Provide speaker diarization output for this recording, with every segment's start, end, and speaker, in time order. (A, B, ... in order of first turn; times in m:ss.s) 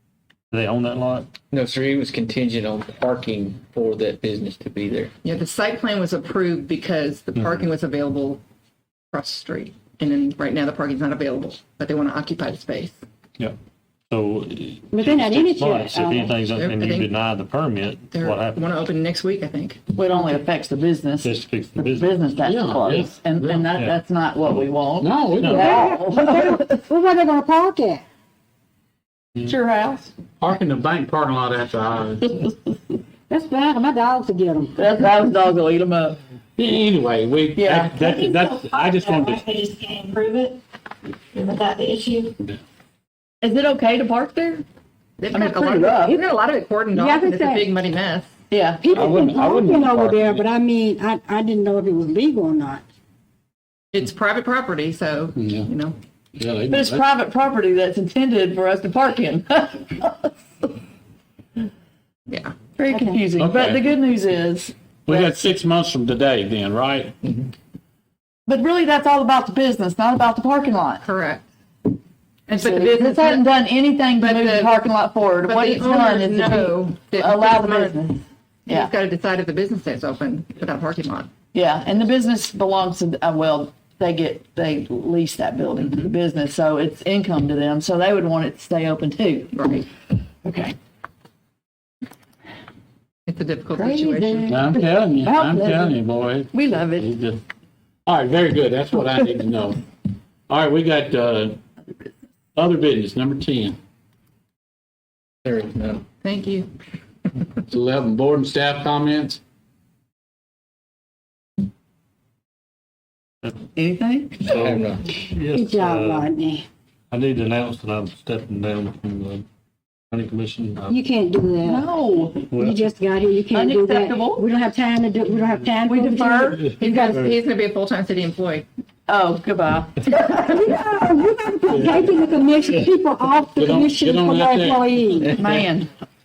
0:00.5-0:01.3 A
0:01.5-0:05.1 B
0:05.2-0:08.4 C
0:07.4-0:07.6 A
0:09.1-0:13.0 C
0:14.1-0:18.6 A
0:14.9-0:16.4 D
0:16.5-0:17.1 C
0:18.1-0:19.8 C
0:19.9-0:26.8 E
0:21.2-0:22.3 A
0:22.4-0:23.7 F
0:25.0-0:25.8 F
0:25.4-0:25.7 A
0:25.5-0:28.0 D
0:29.4-0:30.1 E
0:30.4-0:32.5 F
0:33.3-0:34.8 D
0:34.8-0:36.2 E
0:36.6-0:39.5 F
0:37.6-0:38.0 E
0:37.9-0:40.6 G
0:41.3-0:42.4 G
0:43.4-0:44.6 E
0:45.2-0:48.3 C
0:45.3-0:46.2 E
0:47.0-0:47.7 D
0:48.5-0:48.9 E
0:48.8-0:52.8 D
0:48.9-0:50.5 F
0:53.9-0:56.0 C
0:55.4-0:55.7 F
0:56.4-0:57.0 F
0:56.7-1:00.3 E
1:02.3-1:02.6 C
1:02.8-1:05.2 E
1:03.4-1:03.8 F
1:05.1-1:07.2 F
1:08.5-1:11.0 E
1:11.0-1:11.5 C
1:12.5-1:13.5 C
1:12.5-1:18.9 E
1:14.2-1:14.7 C
1:15.4-1:18.0 C
1:18.7-1:21.3 C
1:21.5-1:29.6 E
1:25.8-1:26.1 C
1:29.5-1:29.9 C
1:30.4-1:30.8 E
1:33.3-1:34.6 C
1:33.7-1:36.0 E
1:34.5-1:37.4 F
1:36.5-1:37.1 E
1:38.1-1:39.8 F
1:40.5-1:41.6 F
1:42.6-1:43.8 F
1:45.4-1:46.0 B
1:46.2-1:46.7 C
1:47.7-1:49.4 F
1:53.8-1:54.7 E
1:54.5-1:56.3 A
1:54.5-1:55.1 B
1:55.5-1:56.7 D
1:57.1-1:59.4 A
2:00.1-2:01.0 A
2:00.9-2:07.1 D
2:01.6-2:02.4 E
2:02.5-2:02.8 A
2:03.5-2:04.4 E
2:05.9-2:06.7 E
2:06.5-2:07.4 A
2:06.8-2:08.7 C
2:09.1-2:10.0 E
2:10.4-2:15.4 D
2:11.7-2:12.2 F
2:13.6-2:14.9 F
2:15.4-2:15.9 E